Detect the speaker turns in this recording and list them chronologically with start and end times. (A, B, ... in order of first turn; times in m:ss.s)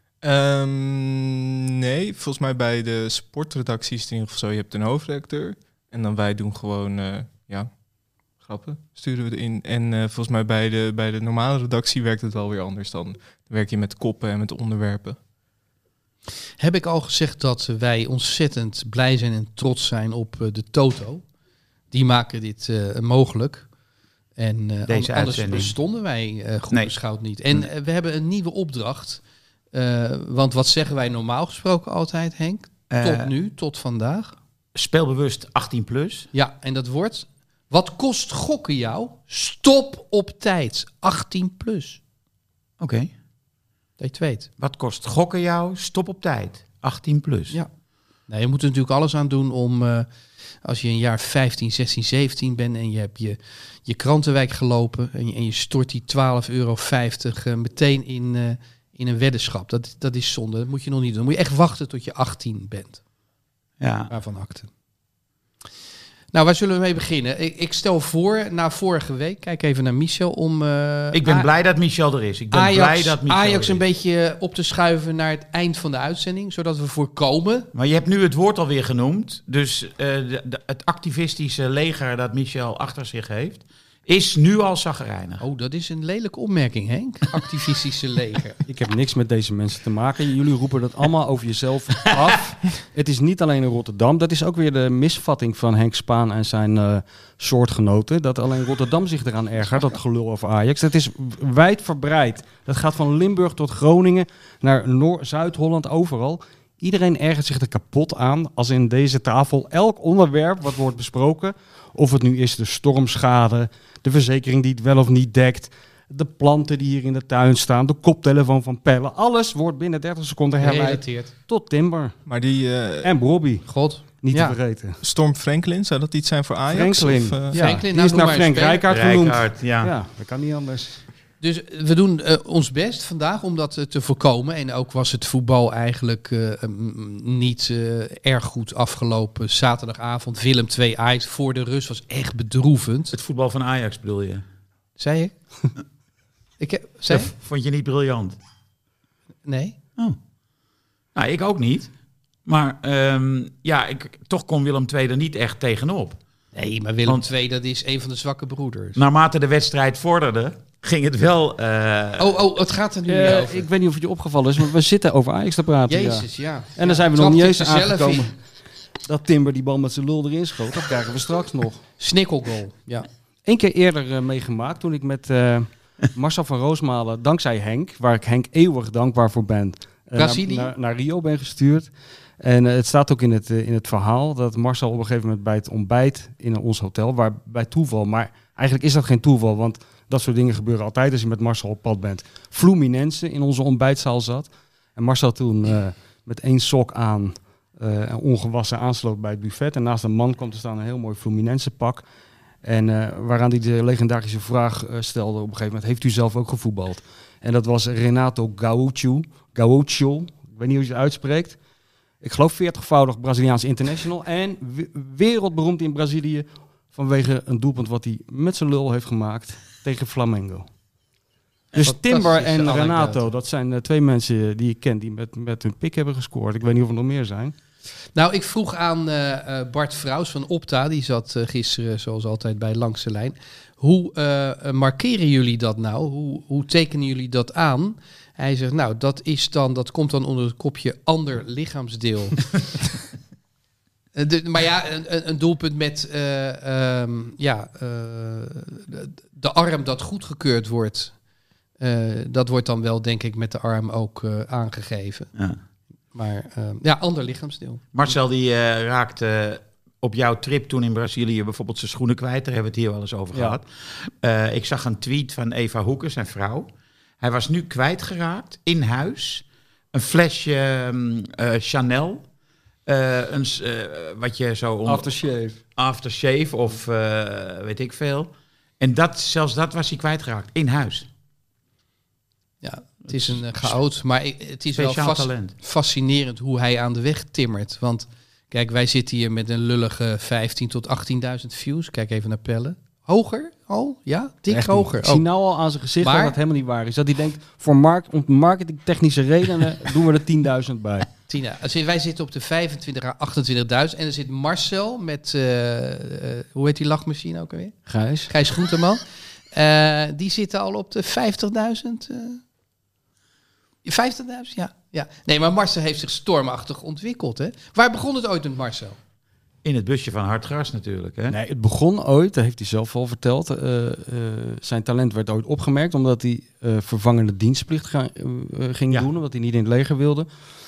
0:00.2-0:07.7 A
0:08.4-0:15.2 A
0:16.6-0:21.2 B
0:21.9-0:23.7 B
0:24.4-0:29.2 B
0:24.9-0:25.8 C
0:29.7-0:34.3 B
0:32.9-0:33.3 C
0:34.8-0:36.3 C
0:36.3-0:42.0 B
0:42.8-0:43.1 C
0:44.0-0:44.5 B
0:44.6-0:47.6 C
0:48.3-0:50.1 B
0:50.6-1:03.0 B
1:03.8-1:04.1 C
1:04.1-1:04.7 B
1:06.3-1:11.5 B
1:11.1-1:13.8 C
1:12.5-1:17.7 B
1:17.7-1:25.4 C
1:25.4-1:28.6 B
1:28.7-2:02.2 D
2:00.6-2:01.3 B
2:02.3-2:03.1 A
2:03.0-2:05.0 D
2:03.7-2:04.6 B
2:05.0-2:07.8 A
2:06.7-2:11.0 D
2:07.5-2:08.9 B
2:08.9-2:09.9 C
2:11.4-2:23.2 B
2:23.1-2:24.4 C
2:25.0-2:25.4 B
2:26.6-2:27.3 B
2:27.1-2:28.4 C
2:29.4-2:29.8 B
2:31.2-2:31.9 C
2:32.4-2:36.2 C
2:36.5-2:39.0 B
2:39.0-2:42.4 C
2:42.2-2:43.7 B
2:43.1-2:48.4 D
2:45.9-2:48.3 B
2:49.0-2:51.8 D
2:52.0-2:53.1 B
2:53.5-3:22.0 D
3:00.2-3:00.7 B
3:22.6-3:31.6 D
3:32.2-3:40.7 D
3:41.8-3:47.6 D
3:41.8-3:43.3 B
3:48.2-4:02.5 B
4:04.2-4:11.2 B
4:11.8-4:15.3 B
4:16.1-4:17.9 B
4:17.9-4:26.7 C
4:23.3-4:23.6 D
4:27.2-4:32.2 C
4:32.9-4:35.1 C
4:34.8-4:35.6 D
4:35.8-4:41.1 C
4:42.6-4:55.3 B
4:43.1-4:43.8 C
4:44.8-4:45.6 C
4:54.5-5:01.1 D
4:56.0-4:56.4 B
5:01.3-5:12.4 B
5:07.9-5:08.3 D
5:13.8-5:19.0 B
5:19.6-5:21.4 C
5:21.3-5:30.3 D